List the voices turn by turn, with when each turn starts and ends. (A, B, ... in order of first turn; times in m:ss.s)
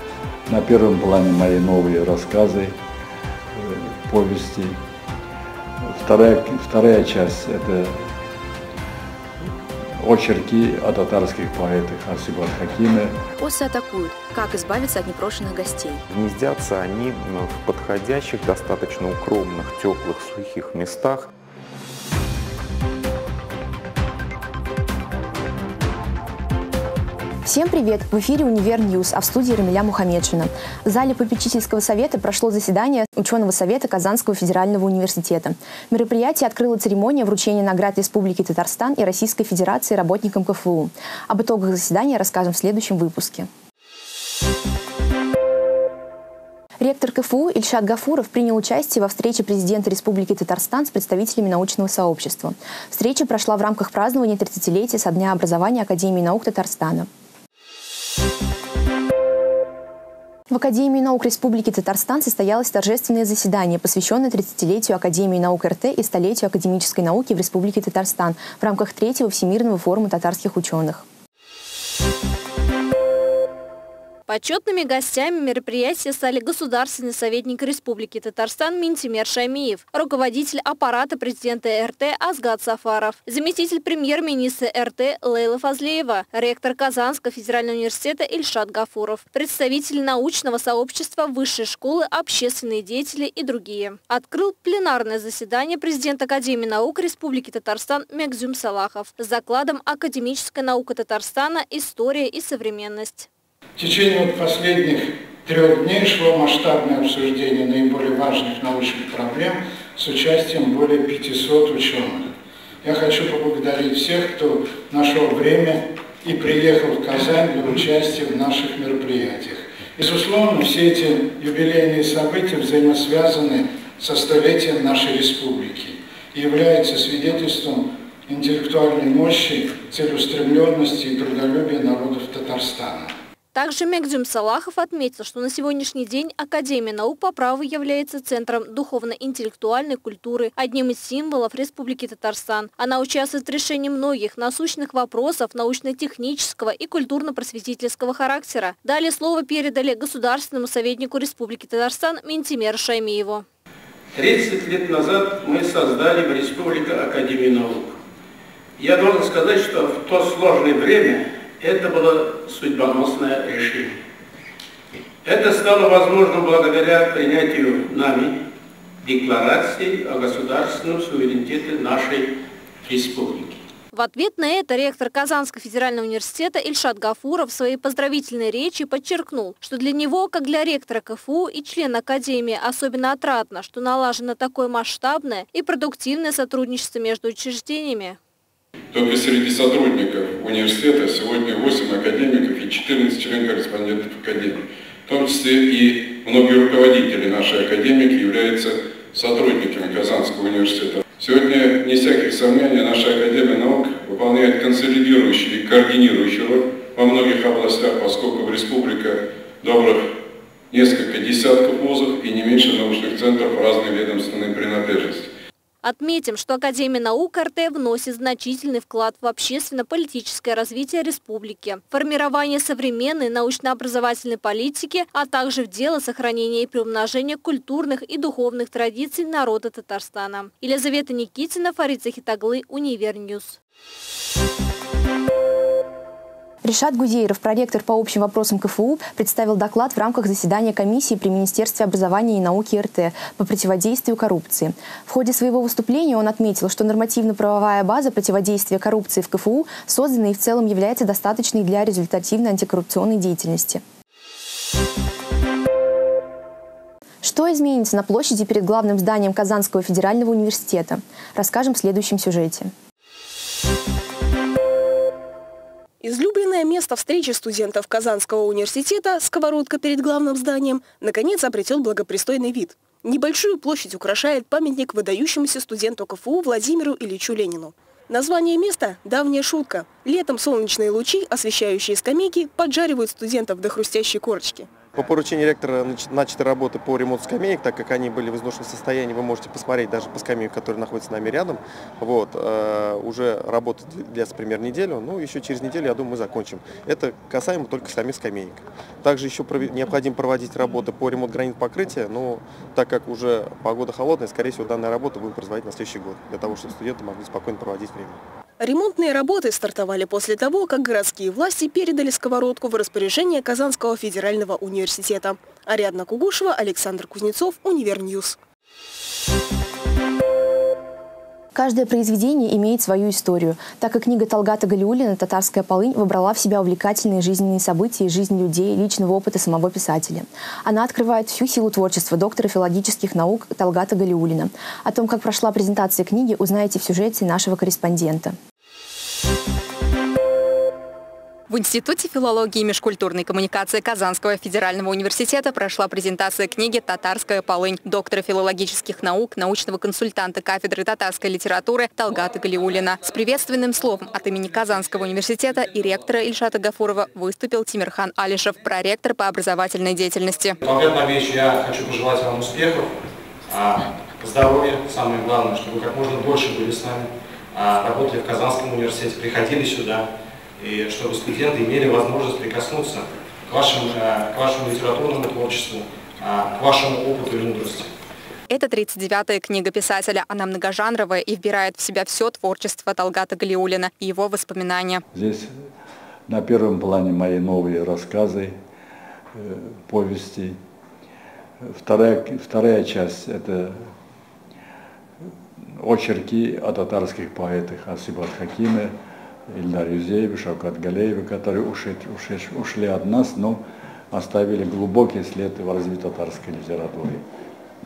0:00.5-0:02.8 A
0:03.6-0:04.8 A
0:06.0-0:08.0 A
0:10.0-0:13.1 A
0:13.4-0:16.0 B
0:16.1-0:21.3 C
0:27.4-0:43.5 B
0:46.8-0:57.1 B
1:00.5-1:11.0 B
1:14.3-1:43.3 D
1:43.8-1:52.2 E
1:52.8-2:13.1 E
2:13.5-2:33.4 D
2:34.1-2:37.9 F
2:38.8-2:43.9 F
2:45.2-2:48.4 F
2:49.0-2:52.3 F
2:52.8-2:53.6 F
2:53.9-3:08.2 D
3:08.9-3:30.0 G
3:30.7-3:35.3 G
3:35.8-3:53.6 D
3:56.6-4:13.8 B
4:17.2-4:22.7 B
4:26.0-4:44.7 H
4:44.9-5:08.2 I
5:08.6-5:18.4 H
5:21.5-5:38.4 B
5:41.5-6:00.6 J
6:00.6-6:17.9 K
6:18.5-6:25.0 J
6:25.1-6:25.5 A
6:26.3-6:28.6 A
6:29.4-6:30.6 A
6:31.6-6:33.9 A
6:35.6-6:38.9 A
6:39.5-6:47.2 A